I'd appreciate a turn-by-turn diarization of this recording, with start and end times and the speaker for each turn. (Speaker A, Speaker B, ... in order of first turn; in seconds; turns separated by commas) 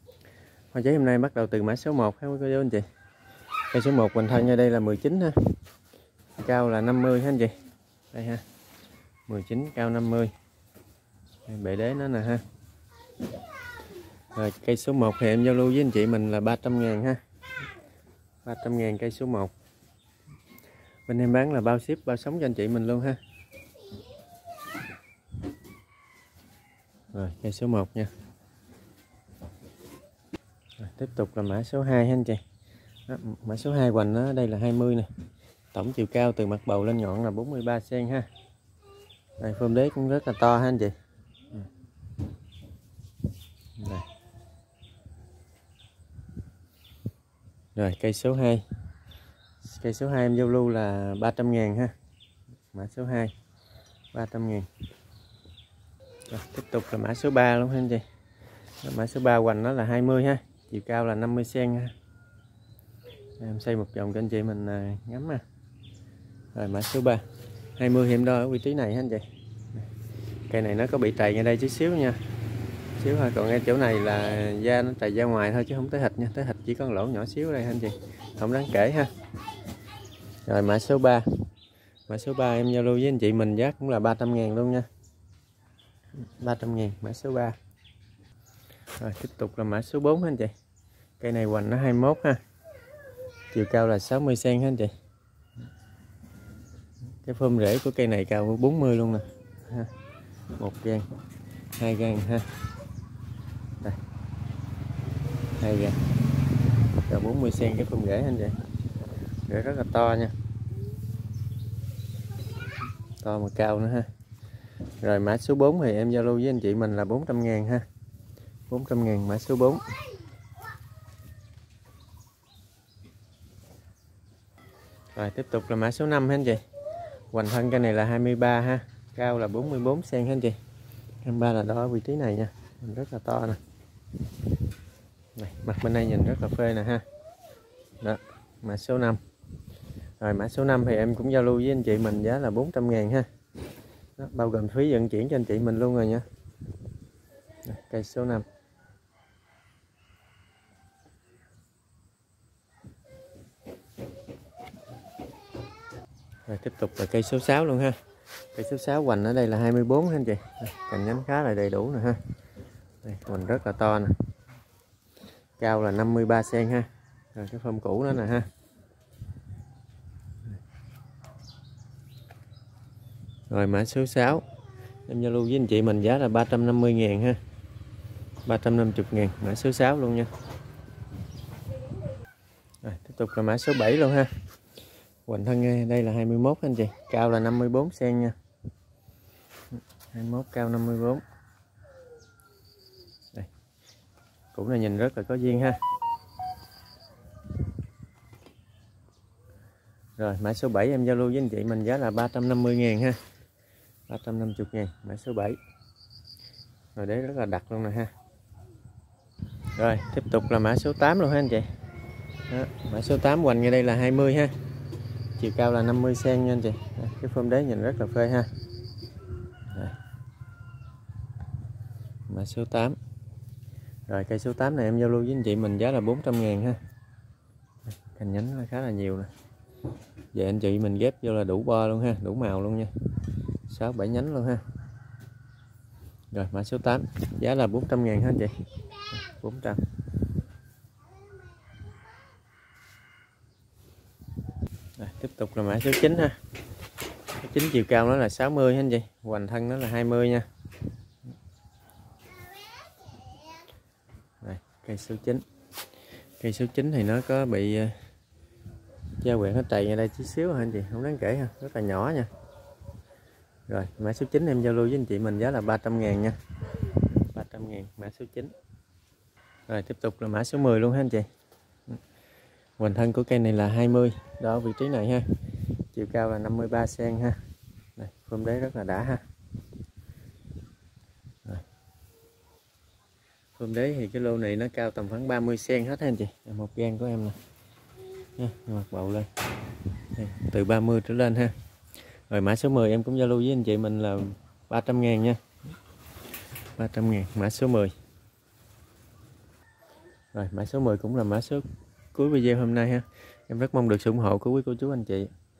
Speaker A: 0.7-2.9, Speaker A: 3.7-5.4, Speaker A: 6.4-7.5, Speaker A: 8.1-8.4, Speaker A: 9.3-10.3, Speaker A: 11.5-12.4, Speaker A: 14.3-17.2, Speaker A: 18.4-19.5, Speaker A: 21.1-23.2, Speaker A: 27.1-28.1, Speaker A: 30.8-32.4, Speaker A: 33.1-35.1, Speaker A: 35.7-38.3, Speaker A: 39.4-40.9, Speaker A: 43.8-44.0, Speaker A: 47.7-48.6, Speaker A: 49.6-51.9, Speaker A: 52.7-53.3, Speaker A: 54.1-54.7, Speaker A: 56.3-58.0, Speaker A: 58.8-61.9, Speaker A: 63.4-65.4, Speaker A: 66.5-67.2, Speaker A: 67.8-69.8, Speaker A: 70.5-72.2, Speaker A: 73.0-79.1, Speaker A: 80.5-81.3, Speaker A: 82.1-84.9, Speaker A: 86.2-87.6, Speaker A: 89.0-90.5, Speaker A: 91.2-92.4, Speaker A: 93.5-94.9, Speaker A: 97.2-99.9, Speaker A: 100.6-101.1, Speaker A: 101.8-102.5, Speaker A: 105.6-106.0, Speaker A: 107.0-108.6, Speaker A: 109.5-110.3, Speaker A: 113.2-114.1, Speaker A: 115.0-117.8, Speaker A: 118.7-119.8, Speaker A: 125.1-126.6, Speaker A: 127.3-130.6, Speaker A: 131.2-133.6, Speaker A: 135.3-137.0, Speaker A: 138.0-139.2, Speaker A: 140.2-143.3, Speaker A: 144.2-146.2, Speaker A: 147.6-148.4, Speaker A: 156.5-158.0, Speaker A: 158.5-162.2, Speaker A: 163.0-164.2, Speaker A: 165.6-168.5, Speaker A: 173.5-174.4, Speaker A: 175.1-177.4, Speaker A: 178.4-180.3, Speaker A: 182.8-184.3, Speaker A: 185.2-188.3, Speaker A: 190.1-191.2, Speaker A: 194.5-195.8, Speaker A: 200.2-203.2, Speaker A: 204.1-205.6, Speaker A: 206.9-208.1, Speaker A: 209.7-211.7, Speaker A: 212.5-214.5, Speaker A: 215.4-218.5, Speaker A: 219.7-219.9, Speaker A: 222.3-222.9, Speaker A: 224.1-226.8, Speaker A: 227.9-229.3, Speaker A: 230.3-232.9, Speaker A: 233.7-234.6, Speaker A: 236.3-238.5, Speaker A: 239.1-239.8, Speaker A: 245.0-246.4, Speaker A: 247.4-250.5, Speaker A: 254.4-255.4, Speaker A: 256.4-257.9, Speaker A: 259.2-262.3, Speaker A: 263.7-266.4, Speaker A: 266.9-268.5, Speaker A: 269.7-271.3, Speaker A: 272.8-275.3, Speaker A: 275.9-277.4, Speaker A: 278.0-279.2, Speaker A: 283.6-287.4, Speaker A: 288.4-289.3, Speaker A: 290.1-291.5, Speaker A: 292.3-295.4, Speaker A: 296.8-297.9, Speaker A: 300.3-305.3